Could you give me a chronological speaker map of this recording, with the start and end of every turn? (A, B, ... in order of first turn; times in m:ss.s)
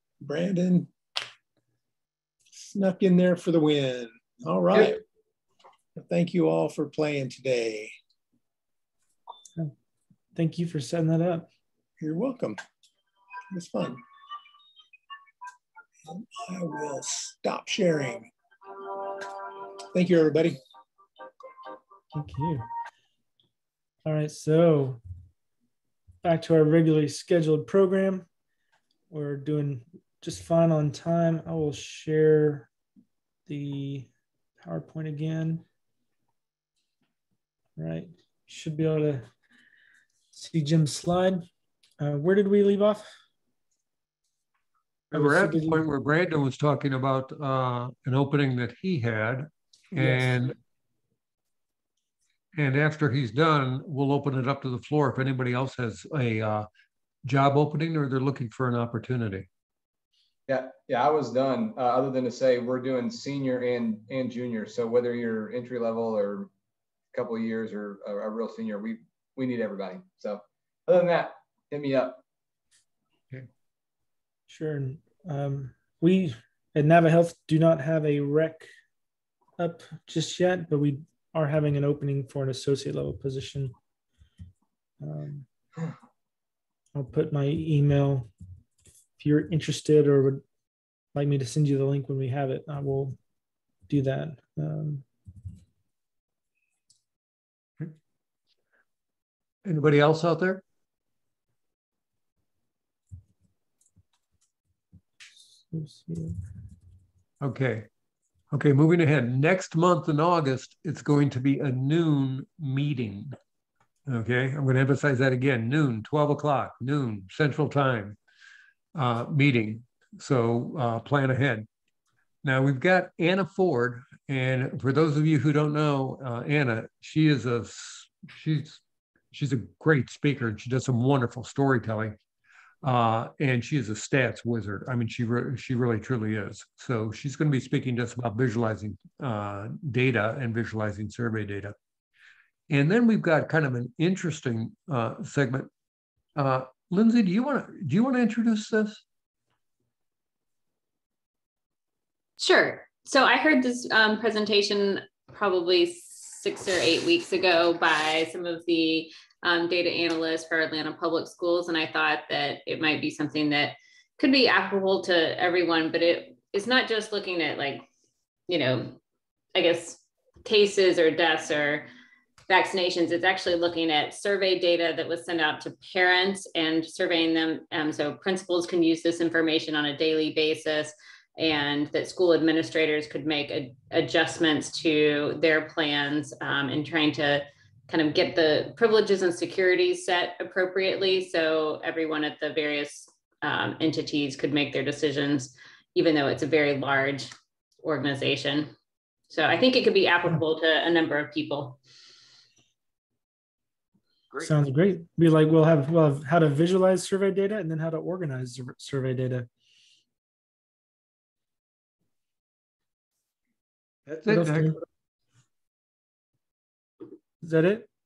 0:00.2-0:00.9 A
0:02.6-0:05.0 A
0:06.0-0:07.9 A
0:10.4-0:11.5 B
0:12.0-0:12.6 A
0:13.5-0:14.0 A
0:16.1-0:19.3 A
0:19.9-0:20.6 A
0:22.1-0:22.6 B
0:24.0-0:25.0 B
0:26.2-0:28.3 B
0:29.1-0:32.7 B
0:33.5-0:34.1 B
0:34.6-0:35.6 B
0:37.8-0:39.3 B
0:40.3-0:41.5 B
0:42.0-0:43.1 B
0:45.1-0:50.6 C
0:45.1-0:45.8 B
0:50.0-0:50.5 B
0:52.5-0:56.7 C
0:57.2-0:59.5 C
1:00.5-1:06.5 D
1:07.1-1:12.2 D
1:14.5-1:18.7 B
1:19.6-1:23.7 B
1:25.0-1:25.5 B
1:26.9-1:28.3 B
1:29.2-1:30.4 B
1:31.1-1:33.2 B
1:33.9-1:35.1 B
1:39.6-1:40.6 C
1:45.7-1:46.4 B
1:47.4-1:47.9 C
1:48.5-1:53.4 C
1:54.1-1:58.2 C
1:58.9-2:01.7 C
2:02.4-2:08.8 C
2:09.3-2:12.2 C
2:12.8-2:21.8 C
2:22.7-2:25.7 C
2:26.4-2:29.0 C
2:32.4-2:47.9 E
2:48.5-2:49.0 E
2:49.5-2:51.9 E
2:52.5-3:17.3 E
3:17.8-3:18.7 E
3:19.3-3:21.8 E
3:24.4-3:29.5 B
3:34.1-3:34.8 C
3:34.3-3:34.8 B
3:37.4-3:37.9 B